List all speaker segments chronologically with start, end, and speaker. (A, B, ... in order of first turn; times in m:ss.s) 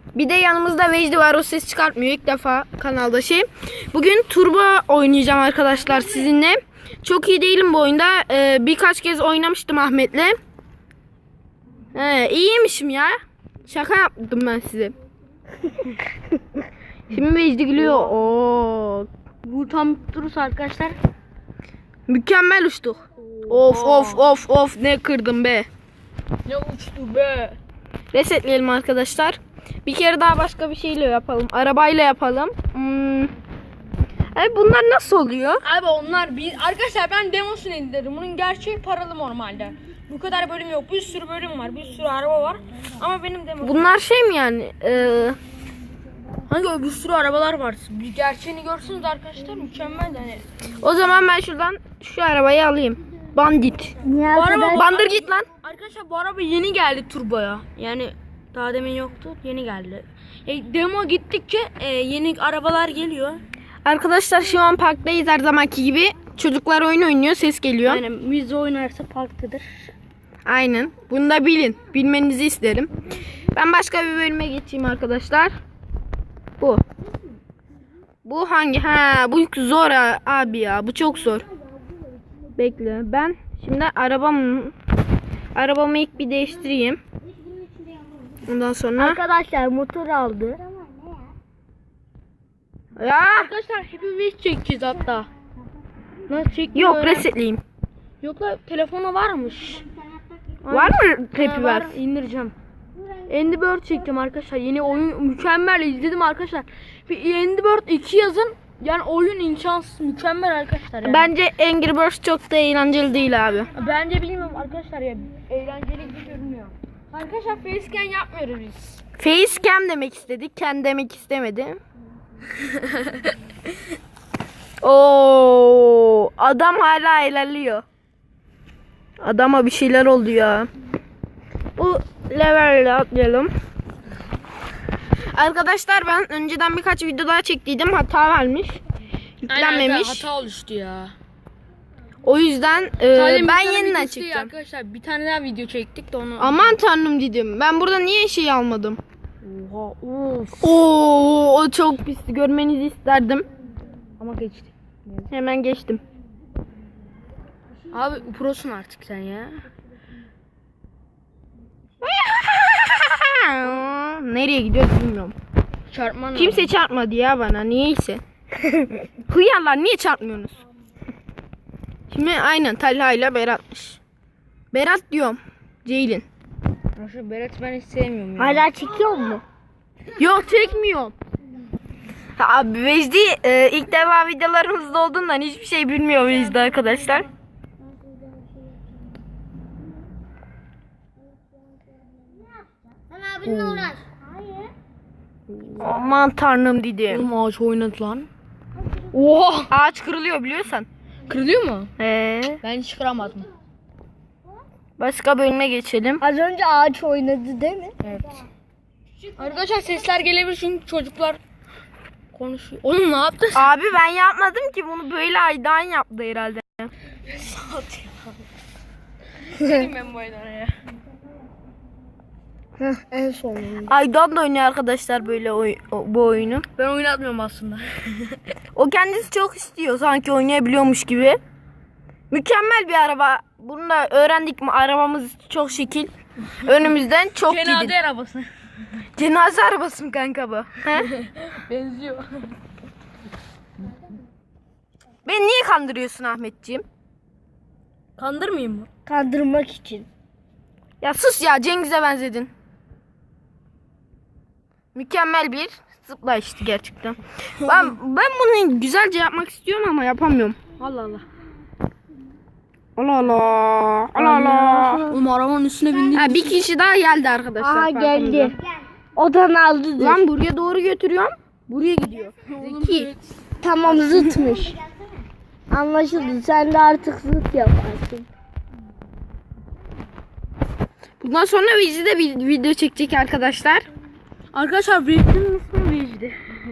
0:00.1-0:10.4 A
0:12.0-0:14.9 A
0:17.1-0:19.1 A
0:19.4-0:21.0 B
0:22.1-0:25.7 A
0:23.4-0:24.2 B
0:26.5-0:27.6 B
0:28.1-0:33.3 A
0:34.4-0:35.6 A
0:35.6-0:43.9 B
0:43.6-0:45.4 A
0:46.5-0:50.4 B
0:50.8-0:54.0 A
0:54.0-0:54.9 C
0:54.3-1:03.4 B
0:54.7-0:55.5 A
1:03.8-1:08.0 A
1:07.8-1:09.9 B
1:10.5-1:12.9 A
1:13.5-1:15.5 A
1:18.2-1:21.4 A
1:22.6-1:24.8 A
1:25.6-1:27.0 A
1:28.5-1:29.2 A
1:29.0-1:30.6 C
1:33.0-1:33.5 A
1:33.3-1:35.3 B
1:36.3-1:37.3 B
1:36.8-1:37.6 A
1:38.2-1:39.9 B
1:40.6-1:42.5 B
1:40.7-1:42.0 A
1:43.3-1:51.3 B
1:51.0-1:53.7 A
1:53.7-1:59.0 B
1:59.2-2:01.8 A
2:02.8-2:03.2 B
2:04.8-2:07.8 A
2:09.2-2:10.7 A
2:11.8-2:13.5 A
2:15.4-2:18.8 A
2:19.4-2:20.3 A
2:19.5-2:21.2 B
2:22.2-2:24.5 A
2:23.1-2:26.8 B
2:26.4-2:29.0 A
2:29.4-2:30.7 B
2:30.6-2:33.5 A
2:34.2-2:35.3 B
2:35.3-2:36.0 A
2:37.9-2:39.6 B
2:42.0-2:45.4 A
2:45.9-2:46.7 B
2:46.4-2:48.2 A
2:49.3-2:50.5 A
2:52.1-2:54.0 A
2:54.7-2:56.3 A
2:57.0-2:58.7 B
2:58.4-2:59.4 C
3:00.2-3:01.1 A
3:02.4-3:07.3 A
3:13.4-3:14.0 B
3:15.8-3:17.3 A
3:17.1-3:18.3 B
3:19.1-3:19.7 B
3:19.7-3:20.9 A
3:21.3-3:21.9 B
3:22.0-3:22.6 A
3:22.6-3:23.5 B
3:25.0-3:26.2 A
3:26.2-3:28.0 C
3:28.0-3:28.4 B
3:29.4-3:31.4 B
3:32.3-3:33.7 B
3:33.5-3:36.9 A
3:37.3-3:38.3 B
3:39.5-3:40.8 B
3:42.8-3:43.9 C
3:43.9-3:46.7 A
3:46.8-3:48.4 B
3:48.8-3:51.4 A
3:52.3-3:56.1 A
3:56.6-3:58.0 A
3:57.5-3:58.5 B
3:59.2-4:01.1 A
4:01.0-4:02.2 B
4:05.2-4:06.8 A
4:08.2-4:08.9 B
4:09.1-4:10.1 C
4:11.0-4:12.5 A
4:14.9-4:20.6 A
4:17.6-4:17.9 B
4:20.8-4:21.2 B
4:23.0-4:25.1 A
4:24.2-4:26.6 B
4:26.1-4:28.6 A
4:27.6-4:28.6 C
4:29.2-4:30.2 C
4:30.0-4:33.1 A
4:32.5-4:33.3 B
4:33.6-4:34.8 C
4:35.7-4:38.3 C
4:41.2-4:43.9 A
4:44.5-4:46.4 B